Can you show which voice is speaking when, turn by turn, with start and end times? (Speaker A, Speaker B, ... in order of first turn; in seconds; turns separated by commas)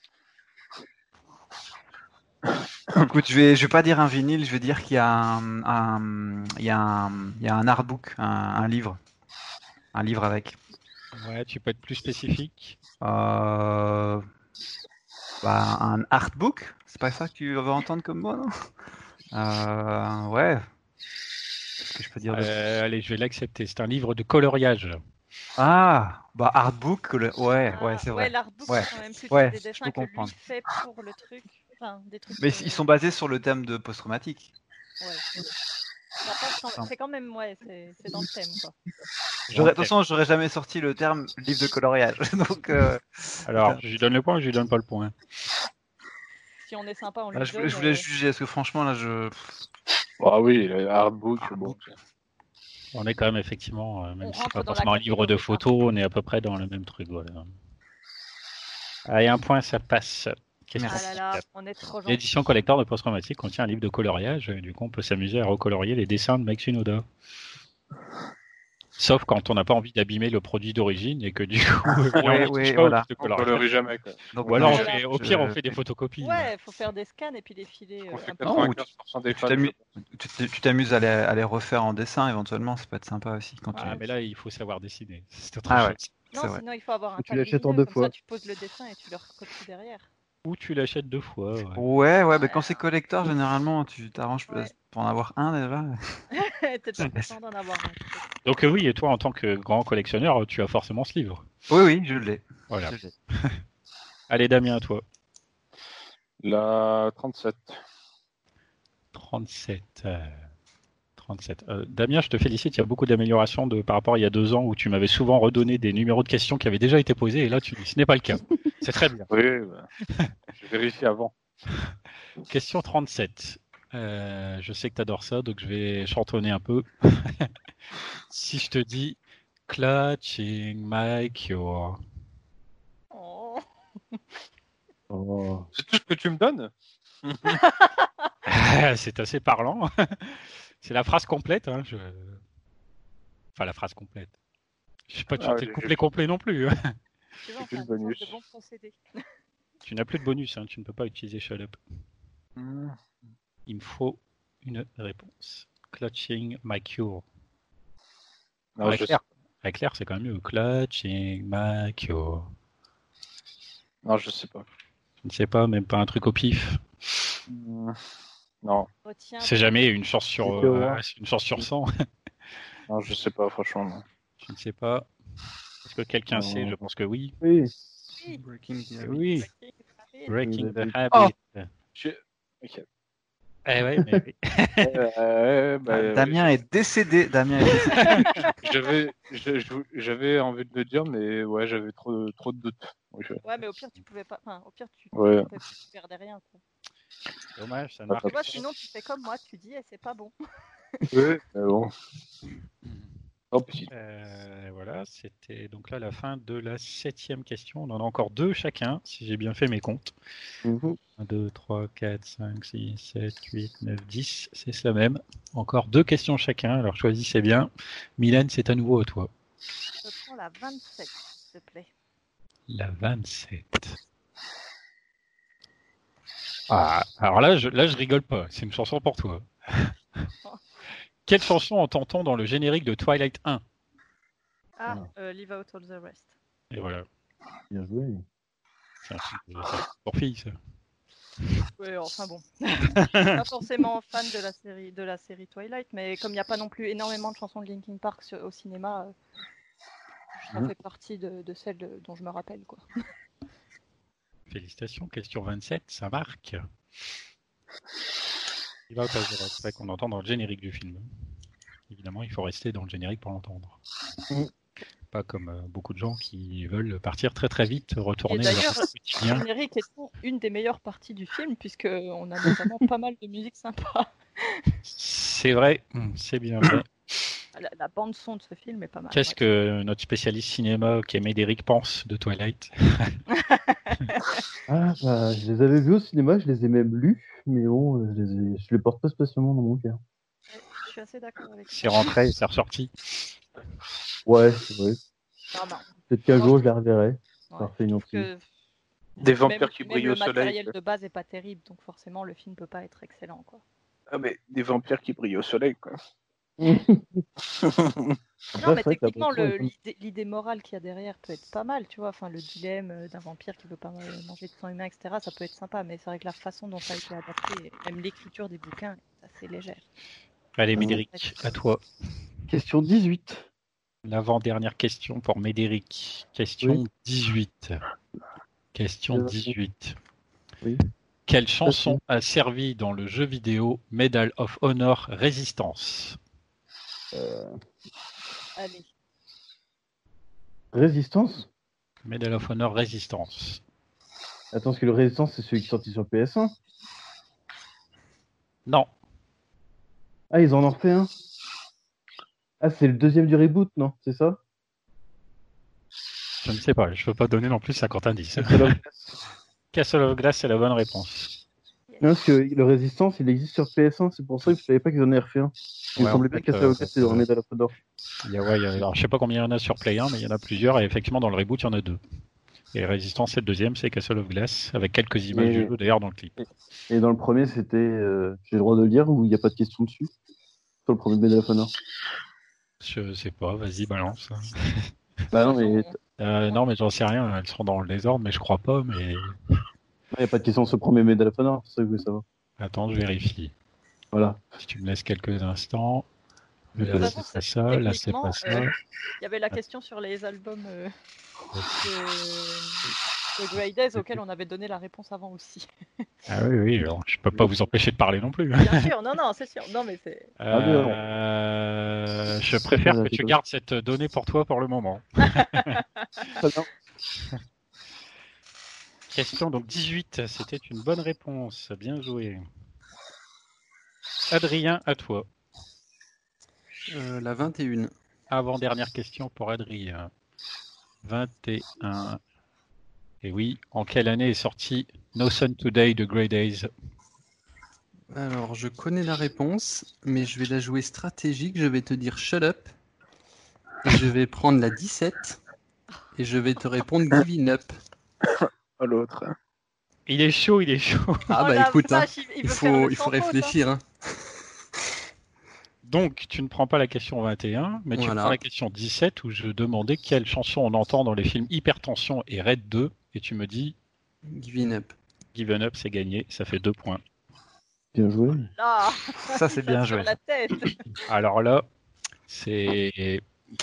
Speaker A: 3.0-9.0, Speaker A: 9.9-10.6, Speaker B: 11.2-12.8, Speaker A: 13.0-14.3, Speaker A: 15.4-18.7, Speaker A: 19.3-20.6, Speaker A: 21.8-22.5, Speaker B: 22.3-25.0, Speaker A: 25.6-30.3, Speaker C: 27.7-32.8, Speaker A: 32.4-34.5, Speaker C: 36.2-38.8, Speaker B: 39.5-39.9, Speaker A: 39.5-43.9, Speaker B: 43.5-45.1, Speaker C: 46.7-48.1, Speaker A: 47.3-49.5, Speaker D: 50.2-51.9, Speaker A: 51.4-51.8, Speaker B: 52.9-57.5, Speaker C: 54.2-55.8, Speaker B: 59.1-61.4, Speaker A: 60.8-61.0, Speaker C: 60.9-62.3, Speaker B: 62.1-67.0, Speaker B: 69.0-73.7, Speaker A: 72.2-73.2, Speaker D: 73.2-74.9, Speaker A: 74.3-75.8, Speaker B: 74.5-76.5, Speaker C: 74.6-75.0, Speaker C: 76.2-78.5, Speaker D: 78.1-79.8, Speaker A: 78.5-84.0, Speaker B: 83.7-86.1, Speaker A: 85.7-86.6, Speaker C: 86.3-90.1, Speaker E: 87.2-88.1, Speaker B: 90.5-91.8, Speaker A: 91.8-96.2, Speaker C: 92.3-92.8, Speaker C: 96.3-98.3, Speaker A: 97.0-97.3, Speaker B: 98.5-101.4, Speaker A: 101.7-103.1, Speaker B: 102.7-103.6, Speaker B: 104.3-105.0, Speaker D: 106.4-107.8, Speaker B: 109.1-110.3, Speaker B: 111.2-119.3, Speaker D: 119.3-119.9, Speaker D: 120.6-121.3, Speaker B: 122.5-127.5, Speaker B: 128.3-129.2, Speaker B: 129.7-132.0, Speaker C: 133.1-134.2, Speaker E: 135.1-135.7, Speaker D: 135.7-136.7, Speaker D: 137.2-137.6, Speaker C: 137.5-138.1, Speaker B: 138.5-142.4, Speaker B: 143.6-144.3, Speaker B: 145.1-146.9, Speaker D: 145.4-146.0, Speaker C: 147.4-149.2, Speaker D: 147.6-148.3, Speaker B: 149.8-151.8, Speaker D: 152.6-153.0, Speaker B: 153.7-157.2, Speaker D: 158.8-159.2, Speaker B: 158.8-162.5, Speaker D: 164.0-164.7, Speaker B: 165.2-166.8, Speaker D: 167.5-168.0, Speaker D: 168.6-168.9, Speaker C: 169.1-169.7, Speaker B: 169.4-171.9, Speaker E: 170.4-171.0, Speaker D: 172.9-174.0, Speaker B: 174.4-175.1, Speaker B: 175.8-177.3, Speaker D: 176.3-176.8, Speaker E: 177.4-177.7, Speaker C: 178.2-178.4, Speaker F: 178.3-179.3, Speaker B: 179.0-179.5, Speaker C: 179.4-180.3, Speaker B: 180.3-181.7, Speaker E: 180.4-181.0, Speaker D: 181.9-182.8, Speaker B: 183.7-185.0, Speaker D: 184.8-186.5, Speaker A: 185.9-188.4, Speaker C: 187.9-188.6, Speaker B: 188.0-188.4, Speaker D: 188.6-193.4, Speaker C: 193.4-196.6, Speaker D: 195.1-195.5, Speaker B: 197.6-198.6, Speaker D: 198.1-198.6, Speaker C: 198.2-200.3, Speaker D: 201.1-201.9, Speaker D: 203.5-203.9, Speaker B: 203.9-210.2, Speaker E: 210.6-211.0, Speaker B: 211.2-219.3, Speaker C: 220.0-221.9, Speaker B: 222.7-224.0, Speaker B: 226.7-230.2, Speaker B: 231.3-233.6, Speaker C: 234.8-236.3, Speaker B: 236.7-237.1, Speaker E: 237.7-238.2, Speaker B: 239.1-240.6, Speaker C: 241.8-249.1, Speaker B: 242.9-243.3, Speaker C: 250.4-252.8, Speaker B: 254.5-256.6, Speaker B: 258.9-261.1, Speaker B: 261.9-263.8, Speaker B: 265.1-269.4, Speaker C: 268.3-274.7, Speaker B: 274.9-276.9, Speaker C: 277.6-279.4, Speaker B: 279.1-283.2, Speaker C: 283.3-284.4, Speaker E: 284.7-290.0, Speaker C: 290.5-292.2, Speaker B: 291.7-292.9, Speaker E: 294.3-295.0, Speaker C: 295.5-296.6, Speaker E: 296.1-298.3, Speaker C: 297.5-298.4, Speaker D: 299.2-300.7, Speaker C: 299.4-303.6, Speaker D: 304.1-306.0, Speaker E: 306.6-307.2, Speaker D: 307.6-308.1, Speaker C: 308.6-319.9, Speaker E: 308.6-309.7, Speaker B: 320.6-321.8, Speaker E: 320.8-321.0, Speaker E: 322.5-323.5, Speaker B: 324.1-327.8, Speaker B: 328.7-330.0, Speaker E: 329.1-329.6, Speaker B: 331.3-336.2, Speaker E: 331.7-332.0, Speaker E: 337.1-337.6, Speaker C: 338.6-338.9, Speaker E: 340.7-341.5, Speaker B: 342.1-343.6, Speaker E: 344.5-346.5, Speaker E: 350.3-351.1, Speaker E: 352.6-354.4, Speaker B: 356.4-358.8, Speaker E: 358.4-359.1, Speaker B: 359.7-361.3, Speaker E: 362.0-367.7, Speaker B: 366.0-367.3, Speaker B: 368.2-372.0, Speaker B: 372.7-376.4, Speaker E: 375.3-375.7, Speaker E: 376.4-380.1, Speaker E: 380.9-381.7, Speaker B: 382.8-384.9, Speaker E: 385.3-385.9, Speaker C: 385.4-385.9, Speaker B: 386.2-389.3, Speaker E: 390.1-392.2, Speaker B: 392.6-393.5, Speaker E: 394.1-394.4, Speaker B: 394.6-396.1, Speaker B: 396.8-398.7, Speaker E: 396.8-397.1, Speaker C: 396.8-398.6, Speaker E: 398.5-398.7, Speaker C: 399.2-400.9, Speaker B: 401.5-401.9, Speaker C: 401.8-402.8, Speaker C: 403.4-405.7, Speaker B: 406.3-408.9, Speaker C: 408.6-410.3, Speaker B: 410.4-415.8, Speaker E: 410.5-411.0, Speaker E: 412.7-413.3, Speaker C: 415.4-416.1, Speaker E: 416.4-416.7, Speaker B: 419.1-422.5, Speaker B: 424.3-425.3, Speaker F: 426.9-427.9, Speaker B: 428.3-430.1, Speaker B: 431.0-432.2, Speaker B: 433.2-436.7, Speaker F: 438.1-442.7, Speaker F: 443.8-445.4, Speaker F: 446.2-447.8, Speaker D: 448.2-449.3, Speaker B: 450.1-451.3, Speaker C: 451.3-453.6, Speaker F: 451.3-454.3, Speaker B: 455.8-463.8, Speaker F: 458.0-458.4, Speaker F: 464.3-464.9, Speaker B: 465.3-467.0, Speaker E: 467.9-468.5, Speaker C: 468.6-470.8, Speaker A: 469.3-470.1, Speaker B: 471.1-471.7, Speaker B: 472.3-473.2